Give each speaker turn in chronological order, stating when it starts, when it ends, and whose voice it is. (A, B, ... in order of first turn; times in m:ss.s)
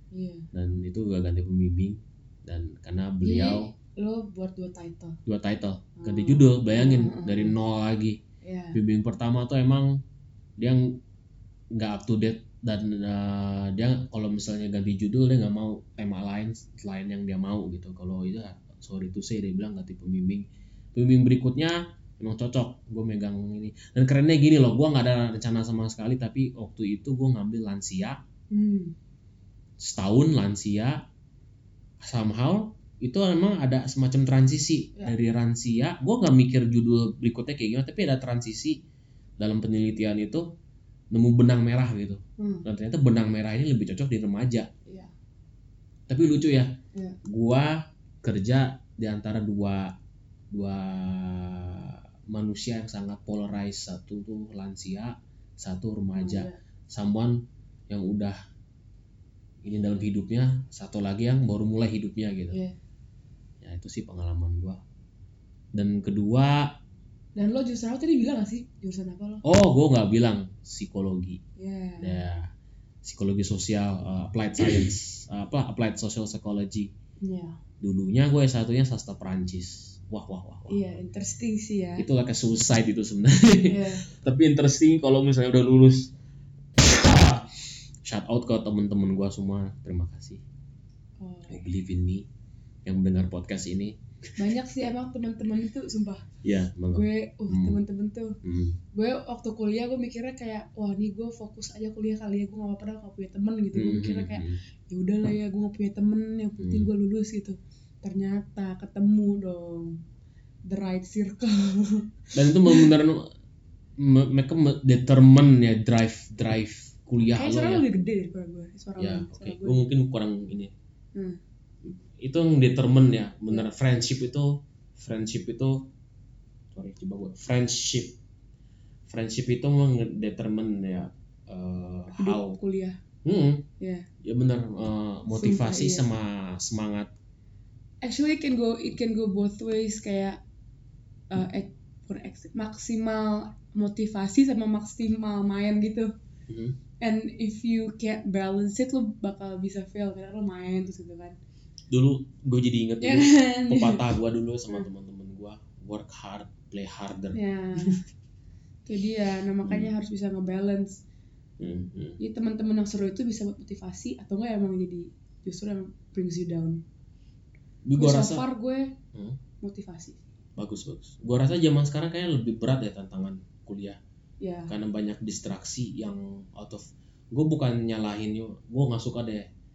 0:00.1-0:00.5 A
0:00.5-0:03.7 B
0:03.2-0:05.2 A
0:05.2-0:08.2 B
0:06.0-0:07.5 A
0:08.4-0:08.8 A
0:08.7-0:10.0 B
0:10.6-0:11.0 B
0:11.7-0:28.2 B
0:28.5-0:28.9 A
0:29.8-0:31.0 B
0:32.0-0:38.8 B
0:39.4-0:40.5 B
0:41.1-0:44.7 B
0:42.4-0:42.6 A
0:44.8-0:45.1 A
0:46.1-0:49.9 B
0:50.5-0:58.4 B
0:56.1-0:56.6 A
0:59.6-1:02.6 B
1:02.5-1:02.8 A
1:03.6-1:04.8 B
1:05.7-1:06.8 B
1:07.3-1:09.4 A
1:09.4-1:11.4 B
1:11.6-1:12.2 A
1:12.0-1:12.5 B
1:13.0-1:16.9 B
1:17.2-1:17.6 A
1:17.8-1:20.8 B
1:20.7-1:22.0 A
1:22.0-1:26.1 B
1:23.7-1:24.0 A
1:26.8-1:27.5 B
1:28.0-1:30.4 B
1:31.2-1:31.6 A
1:31.5-1:32.2 B
1:32.8-1:34.4 B
1:34.4-1:36.2 A
1:36.4-1:37.8 B
1:36.9-1:38.4 A
1:38.4-1:38.8 B
1:38.9-1:50.0 A
1:43.7-1:44.6 B
1:46.6-1:46.9 B
1:50.6-1:52.9 A
1:52.3-1:53.3 B
1:54.0-1:57.8 B
1:57.3-1:59.8 A
1:59.0-2:00.7 B
2:01.1-2:01.4 A
2:01.8-2:05.9 B
2:06.7-2:08.2 B
2:09.1-2:12.6 B
2:12.2-2:13.0 A
2:13.2-2:13.7 B
2:13.8-2:14.1 A
2:14.2-2:17.1 B
2:15.3-2:16.1 A
2:18.0-2:20.4 A
2:21.3-2:26.1 A
2:26.5-2:26.8 B
2:27.0-2:31.4 A
2:31.9-2:38.0 B
2:33.0-2:34.0 A
2:37.3-2:38.0 A
2:38.8-2:41.0 A
2:39.6-2:39.9 B
2:41.6-2:42.2 B
2:42.2-2:46.8 A
2:47.8-2:48.4 B
2:48.0-2:48.9 A
2:49.6-2:50.2 A
2:50.6-2:54.0 B
2:54.4-2:54.7 A
2:54.7-2:59.5 B